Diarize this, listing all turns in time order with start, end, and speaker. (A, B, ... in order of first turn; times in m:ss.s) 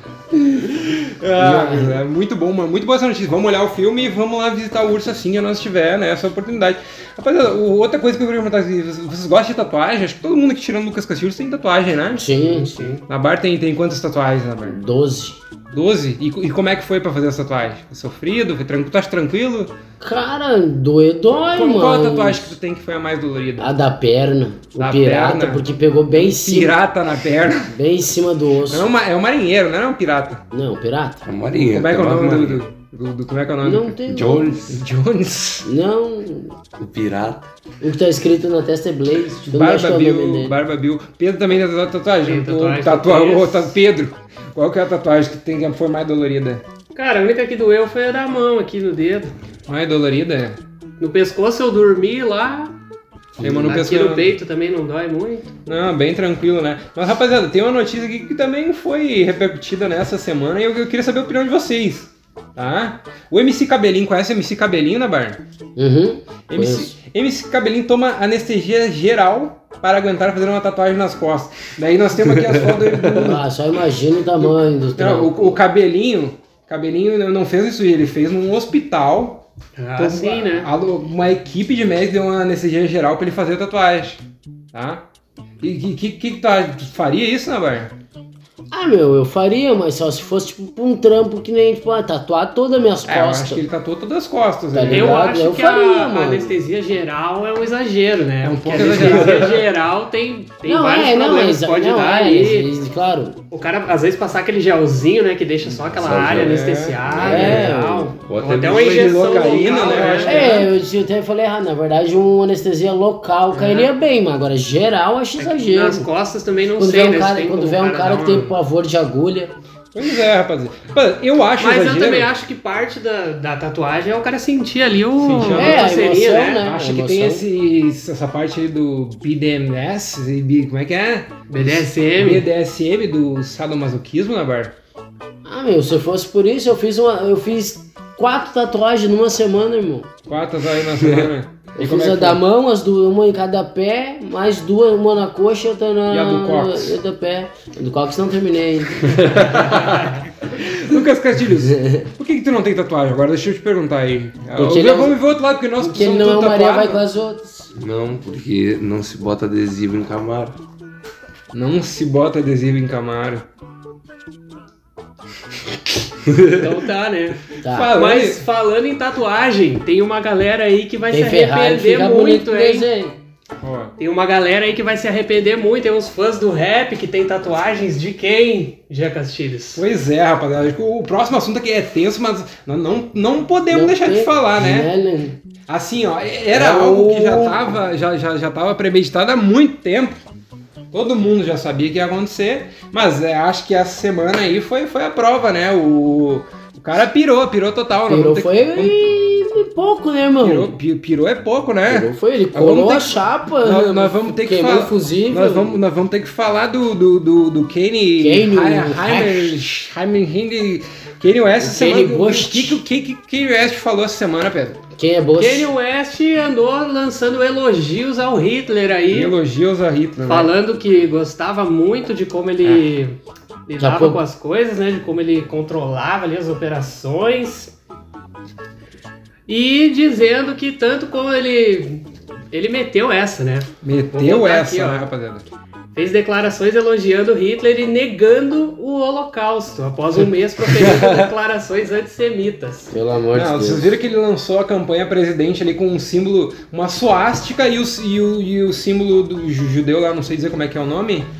0:00.8-0:12.3 A
0:01.4-0:02.0 B
0:12.1-0:12.8 B
0:12.4-0:13.0 C
0:13.0-0:14.8 A
0:14.6-0:15.4 B
0:15.7-0:19.7 A
0:20.0-0:22.5 B
0:21.5-0:23.7 A
0:23.6-0:26.7 B
0:24.8-0:27.7 A
0:27.7-0:28.9 B
0:28.7-0:30.4 A
0:30.5-0:31.2 B
0:31.2-0:32.6 D
0:31.6-0:34.0 A
0:33.6-0:34.6 B
0:34.1-0:34.8 D
0:34.6-0:35.7 A
0:35.6-0:36.6 B
0:36.8-0:37.5 D
0:37.8-0:40.5 B
0:39.4-0:46.6 A
0:42.2-0:43.7 C
0:46.9-0:49.3 C
0:49.7-0:50.6 A
0:51.0-0:52.7 C
0:53.4-0:54.3 A
0:53.4-0:55.5 C
0:55.6-1:05.4 A
1:05.8-1:06.9 B
1:06.5-1:13.4 A
1:12.4-1:13.3 D
1:13.1-1:15.6 B
1:14.4-1:19.4 A
1:19.8-1:20.7 C
1:20.0-1:25.0 A
1:25.6-1:27.9 A
1:28.7-1:33.6 B
1:33.1-1:35.3 A
1:34.7-1:36.6 B
1:34.9-1:42.7 C
1:38.4-1:39.6 A
1:38.8-1:39.6 D
1:40.6-1:43.4 B
1:43.5-1:50.6 C
1:45.8-1:47.7 D
1:46.3-1:47.6 A
1:47.2-1:48.1 B
1:48.3-1:49.6 D
1:48.7-1:50.7 A
1:49.8-1:56.1 B
1:53.5-1:53.9 C
1:55.4-1:58.5 C
1:56.8-1:59.5 B
1:59.9-2:02.3 A
2:01.6-2:06.6 C
2:05.2-2:05.9 A
2:05.5-2:07.4 B
2:06.6-2:14.7 A
2:11.5-2:12.5 C
2:15.4-2:20.1 B
2:20.3-2:22.4 A
2:21.8-2:29.6 B
2:26.1-2:27.0 A
2:29.3-2:37.0 A
2:31.7-2:32.0 B
2:34.5-2:35.2 B
2:35.8-2:37.7 B
2:37.8-2:40.6 D
2:41.5-2:43.4 A
2:46.5-2:52.9 C
2:47.6-2:47.9 B
2:47.7-2:48.4 A
2:51.1-2:53.2 B
2:53.6-2:53.9 A
2:54.0-2:59.8 C
2:59.8-3:04.9 A
3:03.7-3:05.4 B
3:05.7-3:10.2 A
3:06.5-3:07.6 B
3:10.9-3:19.0 A
3:18.1-3:20.7 B
3:20.4-3:34.8 A
3:21.9-3:25.8 B
3:28.2-3:29.6 B
3:31.6-3:32.8 B
3:35.0-3:35.7 B
3:35.4-3:39.3 C
3:39.1-3:40.5 A
3:40.2-3:47.7 C
3:43.8-3:44.2 B
3:49.5-3:55.0 C
3:53.8-3:55.4 A
3:55.9-4:02.9 C
4:00.7-4:01.3 D
4:02.9-4:03.9 B
4:03.3-4:11.3 A